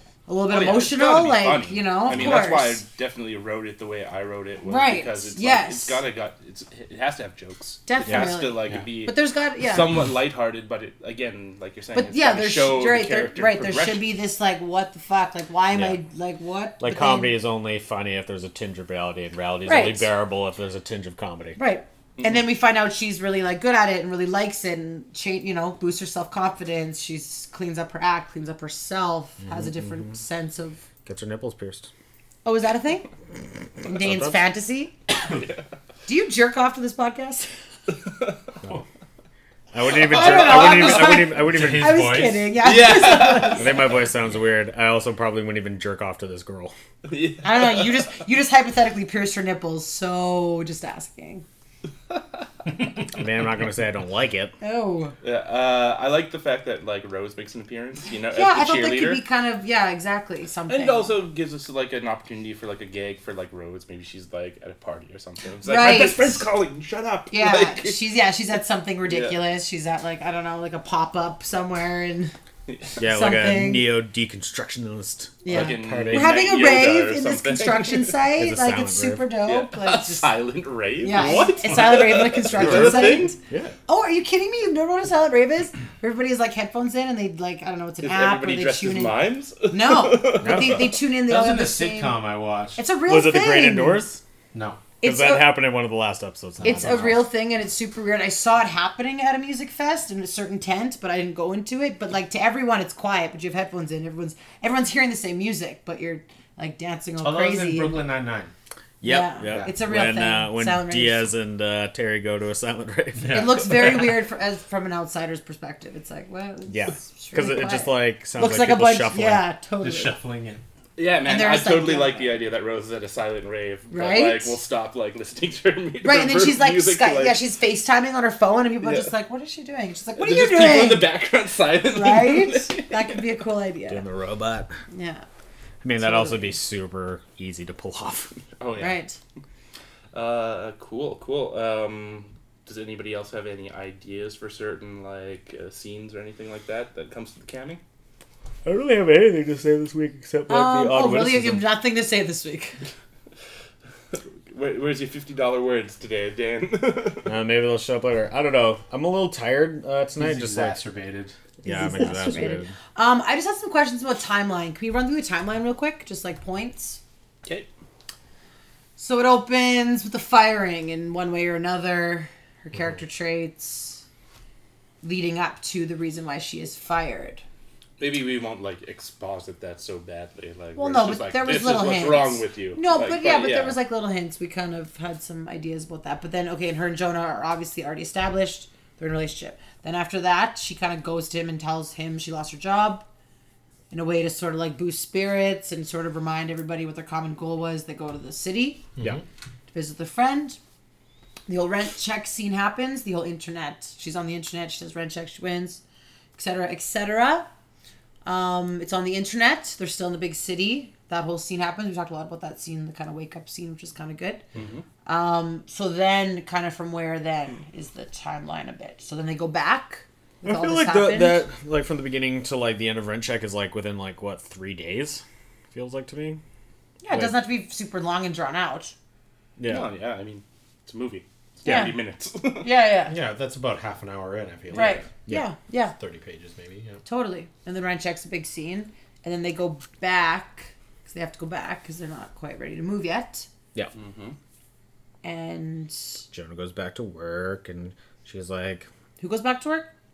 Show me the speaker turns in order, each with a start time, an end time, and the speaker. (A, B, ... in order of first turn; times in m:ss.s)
0:00.3-0:02.8 A
0:00.5-0:14.0 B
0:04.6-0:06.0 A
0:07.9-0:10.0 A
0:11.9-0:17.4 A
0:15.7-0:16.0 C
0:16.8-0:21.6 C
0:19.7-0:20.1 A
0:21.6-0:30.8 A
0:29.5-0:29.9 C
0:31.1-0:31.9 C
0:32.4-0:33.1 A
0:33.8-0:35.0 A
0:33.9-0:34.4 C
0:35.3-0:35.6 B
0:36.1-0:37.5 A
0:39.7-0:42.1 C
0:39.9-0:43.8 A
0:40.2-0:40.8 B
0:41.0-0:42.6 D
0:42.6-0:43.9 B
0:43.5-0:46.8 C
0:47.0-0:48.1 B
0:47.4-0:51.4 A
0:53.1-0:54.5 C
0:54.6-0:55.1 A
0:55.2-0:59.2 B
0:58.3-1:01.1 A
1:00.7-1:08.1 B
1:05.6-1:06.5 A
1:07.3-1:12.3 A
1:09.1-1:09.4 B
1:12.7-1:13.0 B
1:13.0-1:16.4 C
1:13.0-1:13.9 A
1:15.4-1:20.3 A
1:15.5-1:18.2 B
1:18.4-1:19.3 C
1:19.5-1:23.4 B
1:21.0-1:32.2 A
1:22.6-1:23.8 C
1:28.0-1:30.9 B
1:30.4-1:31.0 C
1:31.3-1:32.8 D
1:32.8-1:34.1 A
1:33.1-1:34.2 C
1:34.5-1:34.8 D
1:35.0-1:35.5 A
1:35.0-1:37.2 C
1:36.6-1:48.0 A
1:47.2-1:48.5 D
1:49.0-1:53.7 C
1:49.0-1:51.3 A
1:49.5-1:49.7 D
1:53.2-1:54.1 D
1:53.3-2:00.2 A
1:56.7-1:59.5 C
1:59.8-2:00.6 D
2:01.0-2:07.4 B
2:01.2-2:02.3 A
2:03.9-2:04.6 A
2:06.0-2:11.1 A
2:08.8-2:09.1 B
2:10.2-2:13.2 B
2:11.9-2:14.0 A
2:13.9-2:14.7 C
2:14.9-2:15.2 A
2:15.8-2:18.3 C
2:16.0-2:16.6 A
2:18.6-2:19.0 B
2:18.8-2:19.2 A
2:20.1-2:27.8 B
2:28.6-2:31.6 C
2:30.5-2:32.8 A
2:34.1-2:37.3 B
2:37.2-2:40.8 C
2:40.2-2:41.3 D
2:41.6-2:47.0 A
2:41.6-2:42.7 C
2:49.0-2:54.0 A
2:55.0-2:57.4 A
2:58.0-3:03.8 B
3:00.8-3:13.0 A
3:13.9-3:18.9 A
3:19.0-3:19.2 D
3:19.7-3:20.6 A
3:21.5-3:25.8 A
3:26.4-3:27.5 A
3:28.2-3:34.4 A
3:34.6-3:34.8 B
3:35.1-3:41.5 A
3:40.4-3:46.4 C
3:47.0-3:48.9 A
3:47.1-3:47.4 C
3:49.6-3:49.9 C
3:49.7-3:52.7 B
3:51.6-3:51.9 C
3:51.6-3:52.0 A
3:52.6-3:53.2 A
3:53.1-3:55.1 D
3:54.7-3:55.1 B
3:54.7-3:56.0 A
3:56.0-3:57.0 D
3:57.1-4:03.5 A
4:03.9-4:04.4 B
4:05.2-4:06.2 A
4:06.3-4:08.9 C
4:09.2-4:09.9 A